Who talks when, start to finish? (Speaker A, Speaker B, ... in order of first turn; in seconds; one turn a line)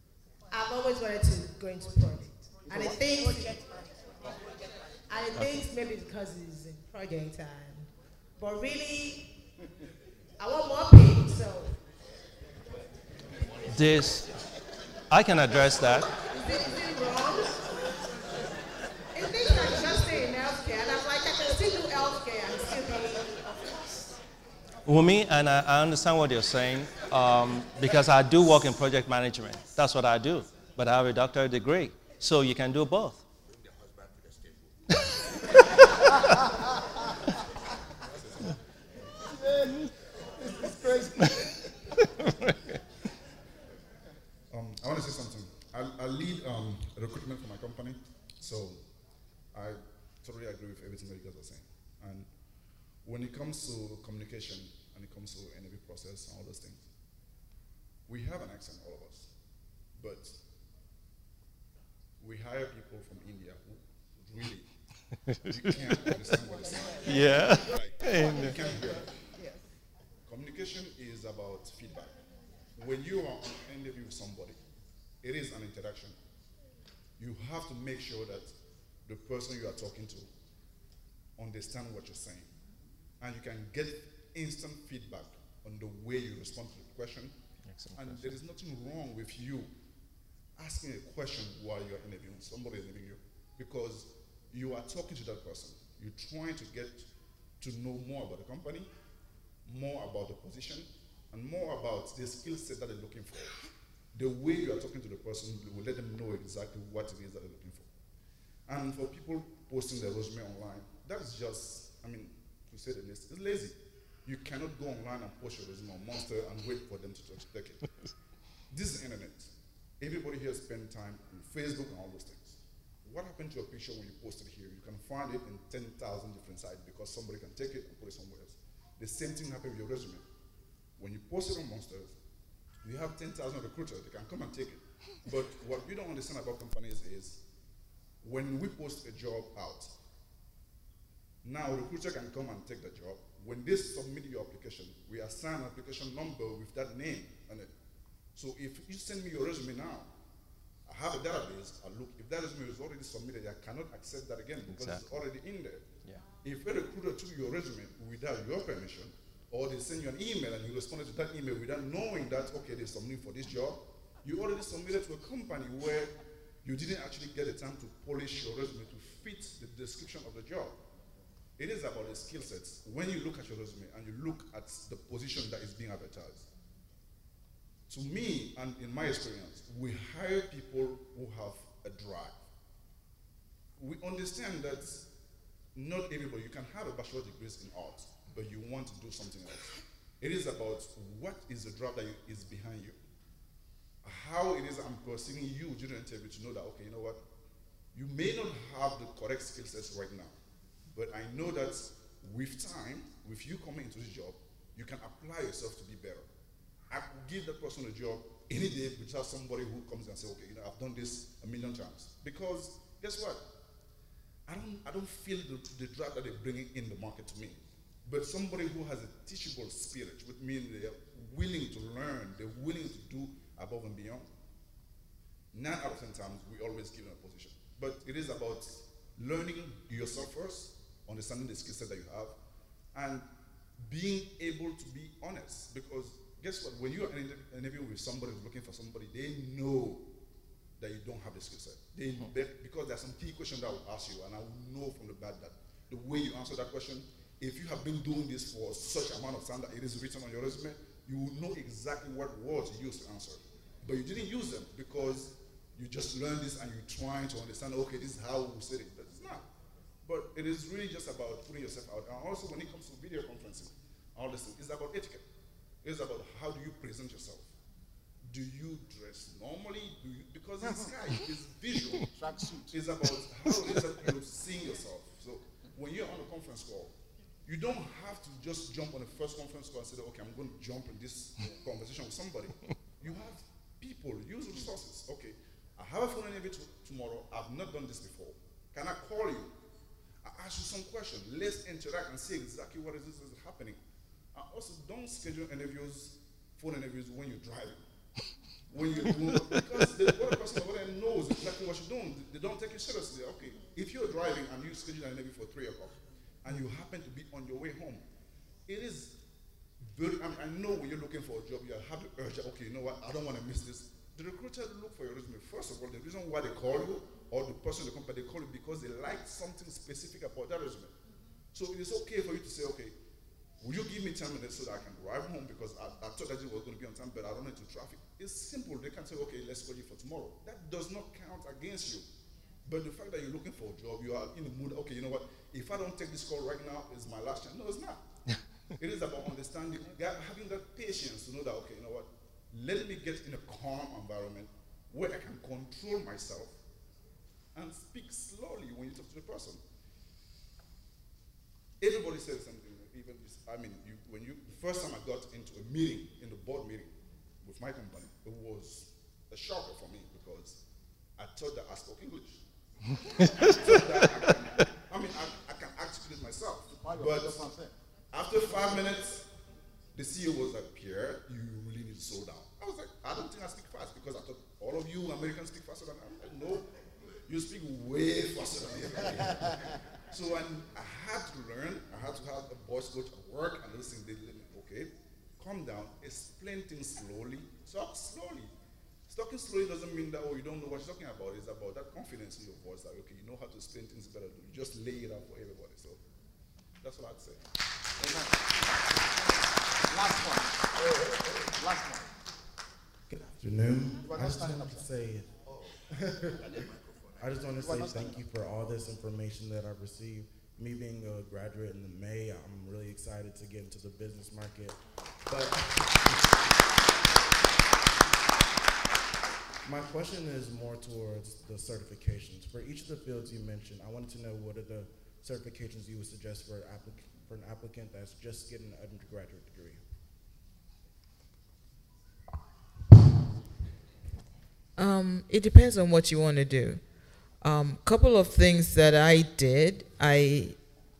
Speaker A: 0.5-3.9
Speaker A: 5.1-9.4
Speaker B: 5.3-5.6
Speaker A: 10.4-11.8
Speaker B: 13.7-14.3
Speaker B: 15.1-16.1
Speaker A: 16.3-17.7
Speaker A: 19.1-23.4
Speaker B: 24.9-33.2
Speaker B: 41.2-41.5
Speaker B: 42.2-42.8
Speaker C: 44.5-48.8
Speaker C: 49.5-52.3
Speaker C: 53.0-56.9
Speaker C: 58.0-59.3
Speaker C: 59.9-60.4
Speaker C: 62.2-64.7
Speaker C: 65.4-69.1
Speaker B: 67.0-68.6
Speaker C: 70.2-72.1
Speaker C: 72.8-74.6
Speaker C: 75.2-76.2
Speaker C: 77.2-80.3
Speaker C: 81.4-82.5
Speaker C: 83.2-87.3
Speaker B: 87.7-88.4
Speaker C: 87.9-89.7
Speaker C: 90.6-97.1
Speaker C: 97.6-98.9
Speaker C: 99.7-103.6
Speaker C: 104.1-107.9
Speaker C: 108.7-117.9
Speaker C: 118.7-130.2
Speaker C: 131.0-132.1
Speaker C: 132.8-137.4
Speaker C: 138.2-139.9
Speaker C: 141.4-147.7
Speaker C: 148.3-150.1
Speaker C: 150.9-155.9
Speaker B: 154.7-155.2
Speaker C: 156.4-170.8
Speaker C: 171.6-176.5
Speaker C: 177.9-182.4
Speaker C: 183.8-185.1
Speaker C: 185.7-193.0
Speaker C: 194.0-197.2
Speaker C: 197.9-200.3
Speaker C: 200.9-206.3
Speaker C: 206.9-213.4
Speaker C: 214.5-224.3
Speaker C: 225.5-232.4
Speaker C: 232.9-233.3
Speaker C: 233.8-240.1
Speaker C: 240.8-259.5
Speaker C: 260.0-265.2
Speaker C: 265.8-267.5
Speaker C: 268.3-276.9
Speaker D: 272.2-272.7
Speaker C: 277.4-289.5
Speaker C: 290.2-293.8
Speaker C: 294.3-297.8
Speaker C: 298.7-308.0
Speaker C: 308.7-309.1
Speaker C: 309.9-320.9
Speaker C: 321.5-322.9
Speaker C: 323.6-332.1
Speaker C: 332.6-338.1
Speaker C: 338.8-346.6
Speaker C: 347.6-349.6
Speaker C: 351.8-360.6
Speaker C: 361.2-362.4
Speaker C: 363.1-367.5
Speaker D: 366.7-367.7
Speaker C: 368.1-369.3
Speaker C: 369.9-376.7
Speaker C: 377.3-388.5
Speaker C: 389.1-396.0
Speaker C: 396.8-397.5
Speaker D: 398.0-398.3
Speaker D: 399.9-402.0
Speaker E: 403.1-405.3
Speaker D: 404.0-404.8
Speaker E: 407.2-416.3
Speaker D: 407.6-408.2
Speaker E: 419.6-429.8
Speaker F: 434.8-436.8
Speaker F: 437.4-440.6